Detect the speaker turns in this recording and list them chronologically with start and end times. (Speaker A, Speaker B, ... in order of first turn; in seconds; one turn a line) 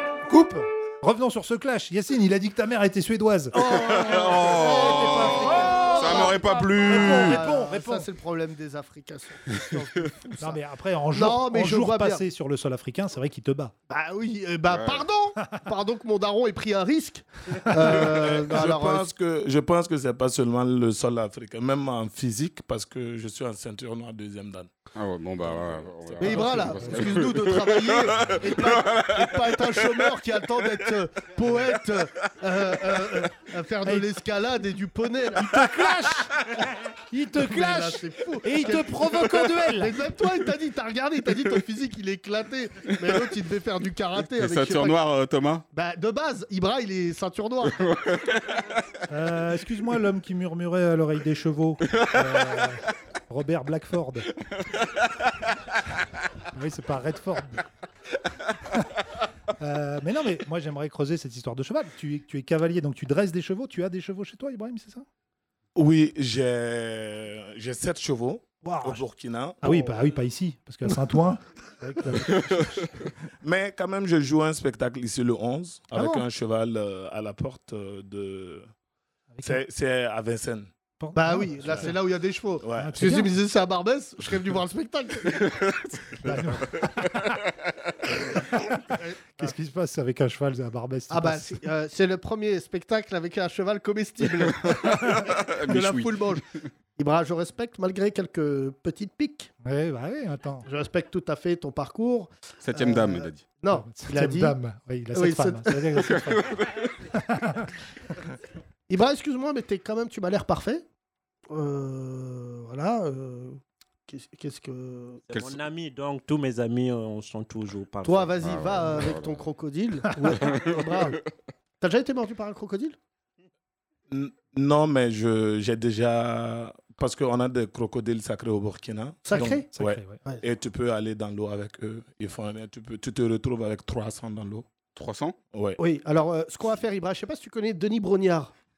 Speaker A: 0.2-8.1
Speaker B: 3.5-10.6
Speaker C: 3.6-7.4
Speaker A: 10.4-13.7
Speaker B: 11.1-12.2
Speaker B: 13.9-19.1
Speaker C: 14.7-15.1
Speaker D: 17.9-24.8
Speaker C: 24.9-30.0
Speaker D: 25.4-26.5
Speaker B: 26.2-35.7
Speaker A: 26.4-27.2
Speaker A: 35.4-40.0
Speaker B: 37.3-45.0
Speaker C: 44.2-45.6
Speaker B: 45.7-47.9
Speaker C: 47.8-48.6
Speaker A: 49.1-54.3
Speaker A: 56.5-57.6
Speaker A: 59.6-65.0
Speaker D: 65.7-69.9
Speaker A: 68.6-69.0
Speaker A: 69.6-73.0
Speaker D: 73.4-78.7
Speaker B: 75.9-76.2
Speaker A: 79.3-79.6
Speaker D: 79.4-80.7
Speaker A: 81.0-81.9
Speaker B: 81.1-85.6
Speaker D: 81.6-81.9
Speaker D: 82.6-83.0
Speaker A: 82.7-83.3
Speaker A: 86.2-87.4
Speaker A: 88.3-88.8
Speaker B: 88.9-89.5
Speaker A: 89.4-91.6
Speaker B: 91.1-99.5
Speaker C: 94.7-96.7
Speaker A: 99.6-100.7
Speaker B: 100.7-104.6
Speaker C: 102.6-103.5
Speaker A: 103.7-107.7
Speaker B: 105.1-106.2
Speaker C: 106.0-106.9
Speaker B: 108.9-110.8
Speaker B: 111.5-115.2
Speaker E: 115.3-118.4
Speaker C: 115.3-115.6
Speaker B: 118.0-121.2
Speaker C: 118.4-119.4
Speaker C: 120.4-121.2
Speaker B: 121.8-123.0
Speaker D: 124.1-134.7
Speaker B: 129.2-129.7
Speaker A: 129.3-130.2
Speaker C: 134.9-135.3
Speaker D: 135.5-135.8
Speaker B: 135.8-138.5